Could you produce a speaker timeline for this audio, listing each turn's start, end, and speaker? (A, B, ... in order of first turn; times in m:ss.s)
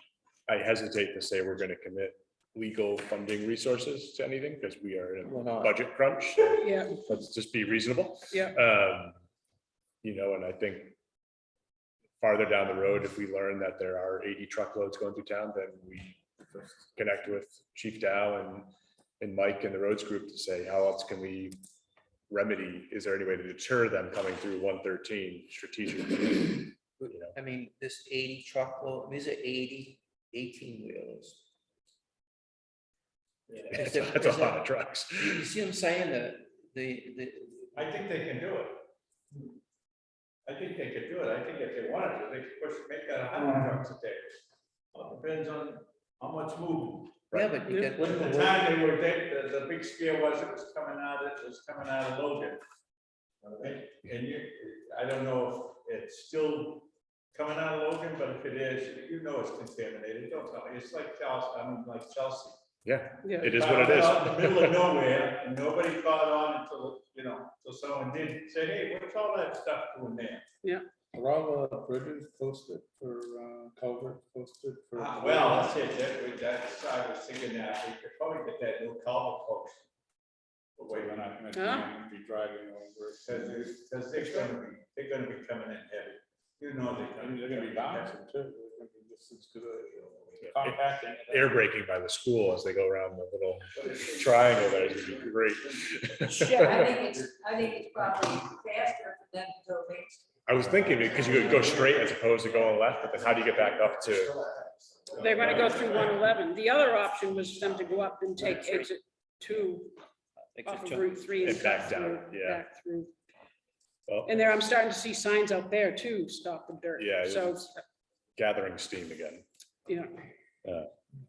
0:00.5-0:09.2 A
0:05.2-0:05.8 B
0:06.6-0:07.0 C
0:08.3-0:08.6 C
0:10.0-0:11.0 A
0:12.2-0:21.6 A
0:22.3-0:27.4 A
0:27.0-0:31.4 B
0:33.5-0:33.8 D
0:33.7-0:35.5 A
0:33.7-0:34.6 B
0:35.2-0:37.7 B
0:37.7-0:38.9 D
0:40.4-0:44.3 D
0:44.9-0:52.6 D
0:47.3-0:48.5 B
0:47.9-0:48.6 E
0:53.4-1:02.6 D
1:02.8-1:04.9 A
1:03.2-1:03.6 C
1:03.4-1:10.4 D
1:11.1-1:15.8 E
1:15.0-1:19.8 D
1:20.8-1:21.2 D
1:21.0-1:23.6 E
1:21.5-1:21.9 C
1:23.2-1:28.1 D
1:27.2-1:31.6 E
1:30.4-1:30.8 A
1:31.3-1:37.0 A
1:36.3-1:40.2 F
1:40.4-1:44.4 A
1:45.1-1:45.8 D
1:45.2-1:50.0 C
1:48.4-1:48.9 B
1:50.5-1:51.6 B
1:50.6-1:53.1 C
1:51.4-1:52.6 A
1:54.1-1:54.5 A
1:54.2-1:57.8 C
1:57.0-1:57.7 A
1:58.4-1:59.4 A
1:59.9-2:00.2 C
2:00.6-2:00.9 A